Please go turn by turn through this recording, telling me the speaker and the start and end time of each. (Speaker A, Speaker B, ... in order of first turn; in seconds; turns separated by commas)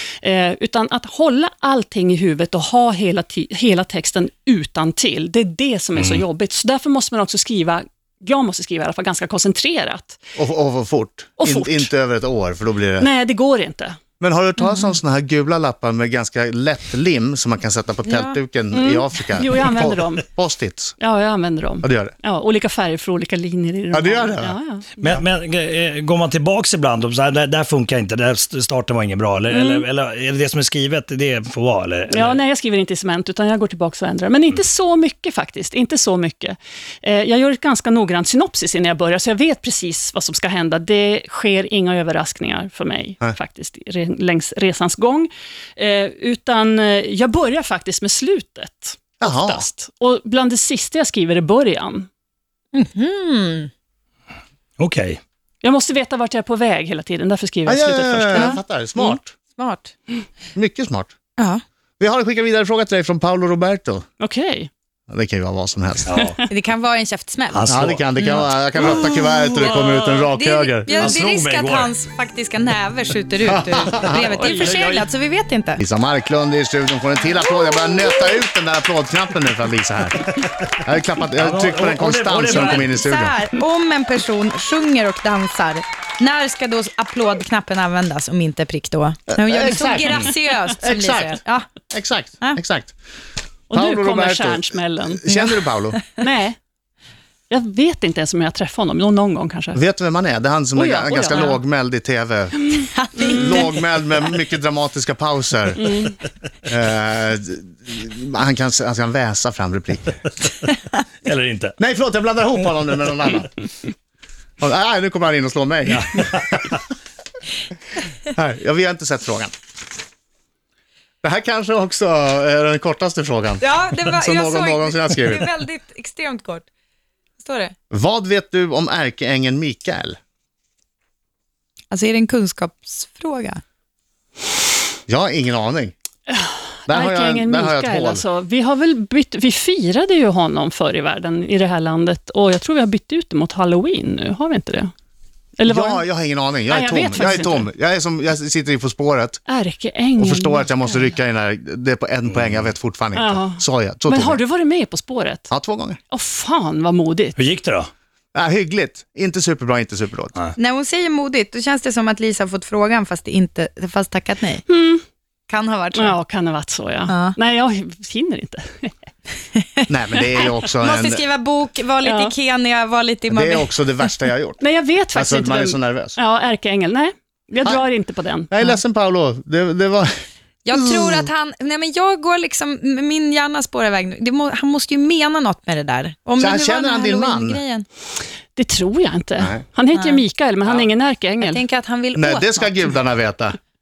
Speaker A: 0.2-10.2, Speaker B: 6.0-6.2, Speaker C: 10.3-13.1, Speaker A: 11.4-11.9, Speaker A: 13.0-14.0, Speaker C: 14.2-20.9, Speaker D: 14.6-14.9, Speaker D: 18.1-18.4, Speaker A: 18.7-20.2, Speaker A: 21.0-24.9, Speaker C: 21.8-22.1, Speaker C: 23.9-24.6, Speaker B: 25.0-32.4, Speaker A: 29.5-29.9, Speaker A: 32.1-52.1, Speaker C: 49.2-49.6, Speaker D: 52.7-53.7, Speaker B: 54.8-55.2, Speaker A: 55.6-58.6, Speaker C: 57.6-59.3, Speaker D: 58.3-59.9, Speaker C: 60.5-61.1, Speaker C: 62.0-64.0, Speaker A: 64.2-64.7, Speaker C: 65.1-66.2, Speaker B: 66.0-66.4, Speaker A: 66.2-66.4, Speaker D: 66.5-68.4, Speaker B: 67.5-68.5, Speaker C: 67.7-71.1, Speaker A: 68.8-70.3, Speaker D: 69.6-75.8, Speaker B: 70.9-71.9, Speaker C: 73.5-74.2, Speaker A: 74.0-75.1, Speaker C: 75.8-83.3, Speaker B: 81.3-83.0, Speaker D: 82.5-91.7, Speaker C: 89.3-91.4, Speaker C: 91.9-92.9, Speaker A: 93.7-95.3, Speaker C: 93.7-96.0, Speaker D: 95.3-95.5, Speaker A: 96.2-96.6, Speaker A: 97.5-99.8, Speaker C: 99.7-106.0, Speaker A: 100.8-101.6, Speaker D: 102.9-103.7, Speaker A: 103.3-103.6, Speaker A: 105.8-106.1, Speaker C: 106.7-110.2, Speaker B: 111.2-111.8, Speaker C: 111.8-113.5, Speaker C: 114.6-116.8, Speaker B: 115.9-116.8, Speaker C: 118.3-119.5, Speaker C: 121.2-125.5, Speaker D: 123.6-126.7, Speaker D: 127.4-127.8, Speaker C: 127.9-130.2, Speaker D: 131.9-133.6, Speaker C: 135.1-135.9, Speaker A: 136.3-144.9, Speaker C: 136.9-138.2, Speaker A: 145.6-146.0, Speaker C: 145.6-149.4, Speaker A: 146.7-147.7, Speaker A: 149.5-151.1, Speaker C: 150.2-154.4, Speaker B: 152.3-152.7, Speaker A: 153.1-155.5, Speaker C: 155.5-156.0, Speaker A: 156.1-157.4, Speaker B: 157.3-157.9, Speaker C: 158.3-160.3, Speaker D: 160.6-164.6, Speaker A: 164.7-165.0, Speaker D: 165.5-166.2, Speaker A: 165.9-168.9, Speaker D: 167.1-167.4, Speaker D: 169.6-169.8, Speaker C: 169.9-171.2, Speaker D: 170.8-173.7, Speaker A: 172.0-172.3, Speaker C: 173.3-174.6, Speaker A: 174.6-178.5, Speaker C: 175.1-176.2, Speaker C: 178.5-180.1, Speaker D: 180.6-187.9, Speaker C: 180.7-181.3, Speaker C: 186.4-187.6, Speaker A: 188.6-191.6, Speaker D: 189.9-190.2, Speaker D: 191.4-192.9, Speaker C: 192.1-193.6